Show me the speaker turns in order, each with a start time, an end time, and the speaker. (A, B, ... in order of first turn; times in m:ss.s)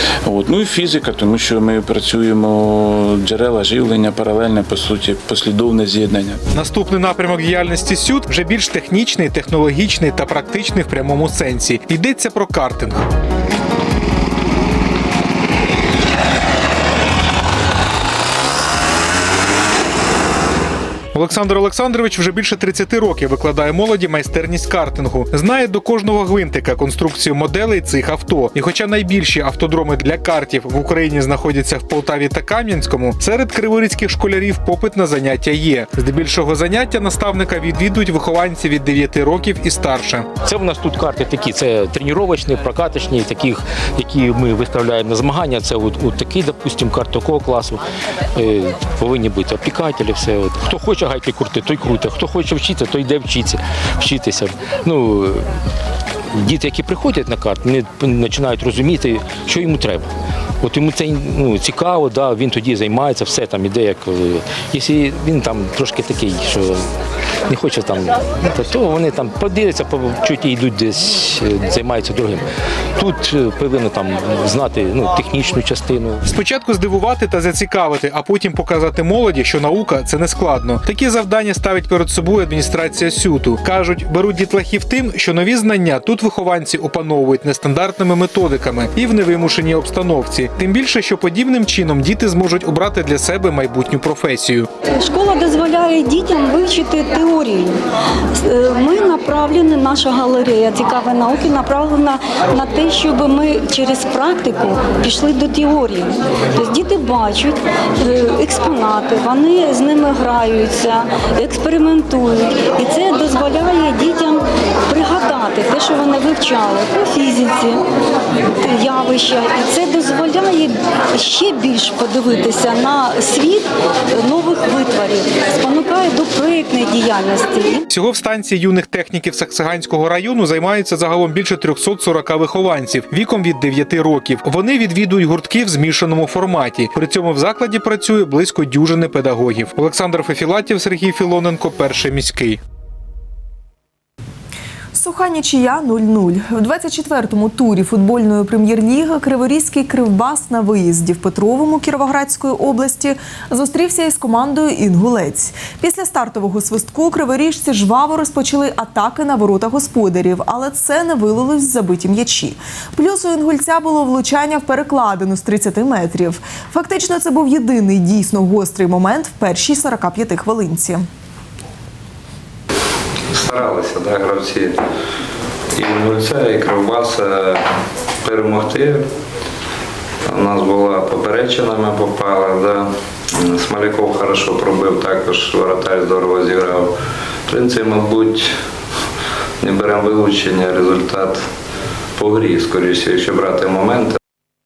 0:00.2-0:06.4 A
0:06.5-0:13.1 B
0:21.1-0:40.3 B
0:40.4-0:47.8 C
0:48.3-0:55.5 C
0:56.3-1:00.1 C
1:00.6-1:06.9 C
1:07.5-1:12.4 C
1:13.0-1:16.2 C
1:16.3-1:34.7 B
1:34.9-1:37.8 D
1:38.4-1:57.8 D
1:58.6-2:07.8 D
2:07.9-2:22.6 B
2:24.9-2:51.0 E
2:53.3-2:54.8 F
2:55.8-2:57.6 F
2:58.2-2:59.0 F
3:00.3-3:06.9 F
3:07.5-3:08.5 F
3:09.6-3:11.4 F
3:12.2-3:14.2 F